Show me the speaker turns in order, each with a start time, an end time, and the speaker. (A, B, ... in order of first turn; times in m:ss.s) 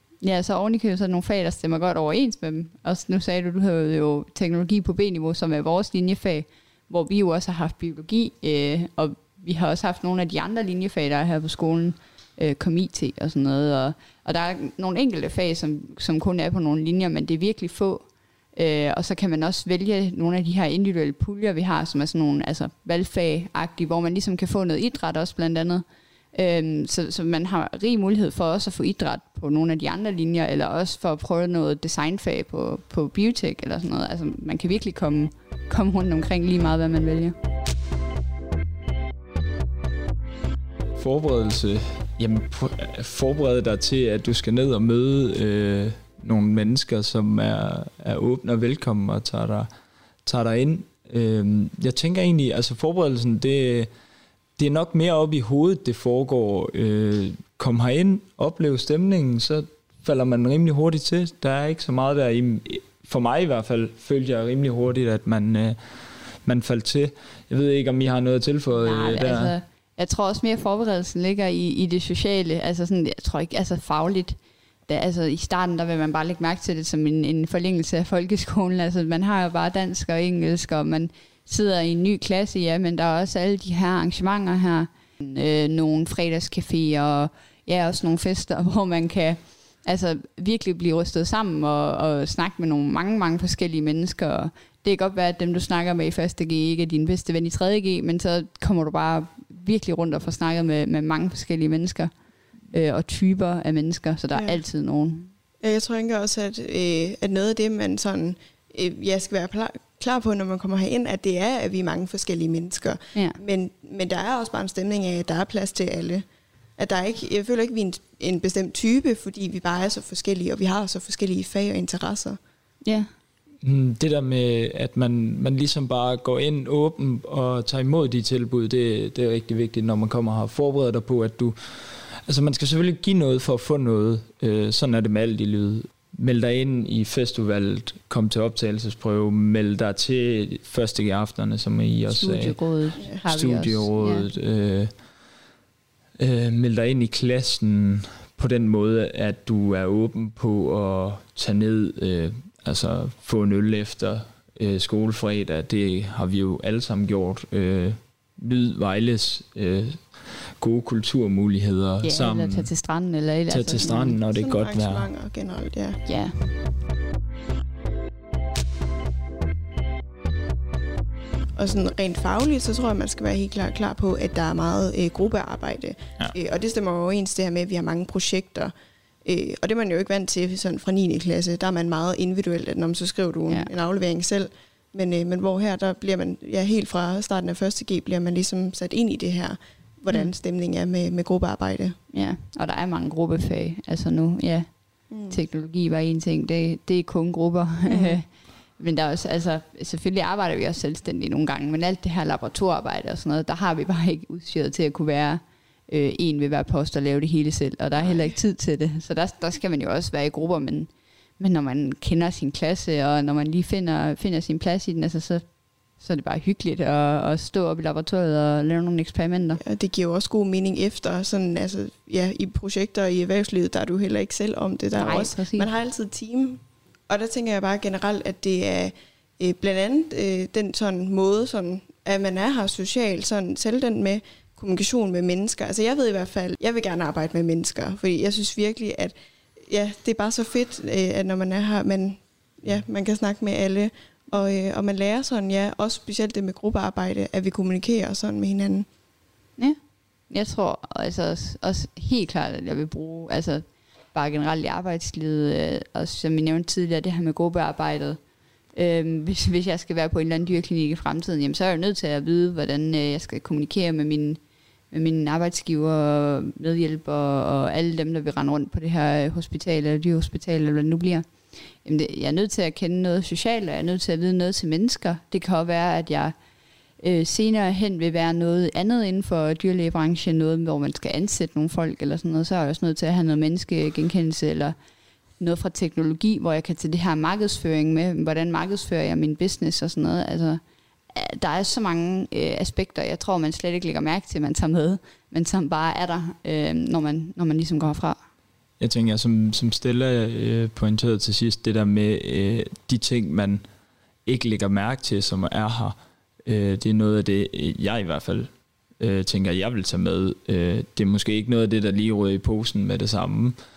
0:00.2-0:37.4 A
0:41.0-0:49.7 B
0:50.2-0:53.9 B
0:54.6-1:09.6 B
1:08.7-1:14.4 A
1:14.9-1:42.1 A
1:42.7-1:45.3 A
1:44.3-1:44.6 C
1:45.6-1:56.2 C
1:56.8-2:02.4 C
2:02.8-2:03.1 A
2:03.6-2:24.9 B
2:22.1-2:24.3 A
2:23.0-2:23.2 C
2:26.2-2:42.8 B
2:42.0-2:44.2 A
2:43.5-2:45.1 B
2:44.3-2:46.0 C
2:46.0-2:46.6 A
2:51.6-2:58.7 C
2:59.2-3:12.0 C
3:03.5-3:03.7 A
3:12.1-3:35.4 A
3:15.1-3:15.4 C
3:17.9-3:18.2 C
3:36.0-3:39.6 A
3:39.6-3:59.2 C
3:44.9-3:45.7 A
3:59.7-4:08.9 C
4:10.3-4:18.2 A
4:18.7-4:31.3 A
4:31.8-4:36.3 A
4:37.0-4:44.8 A
4:45.4-4:50.6 A
4:51.1-4:58.2 A
4:58.8-5:03.6 B
5:04.3-5:13.6 B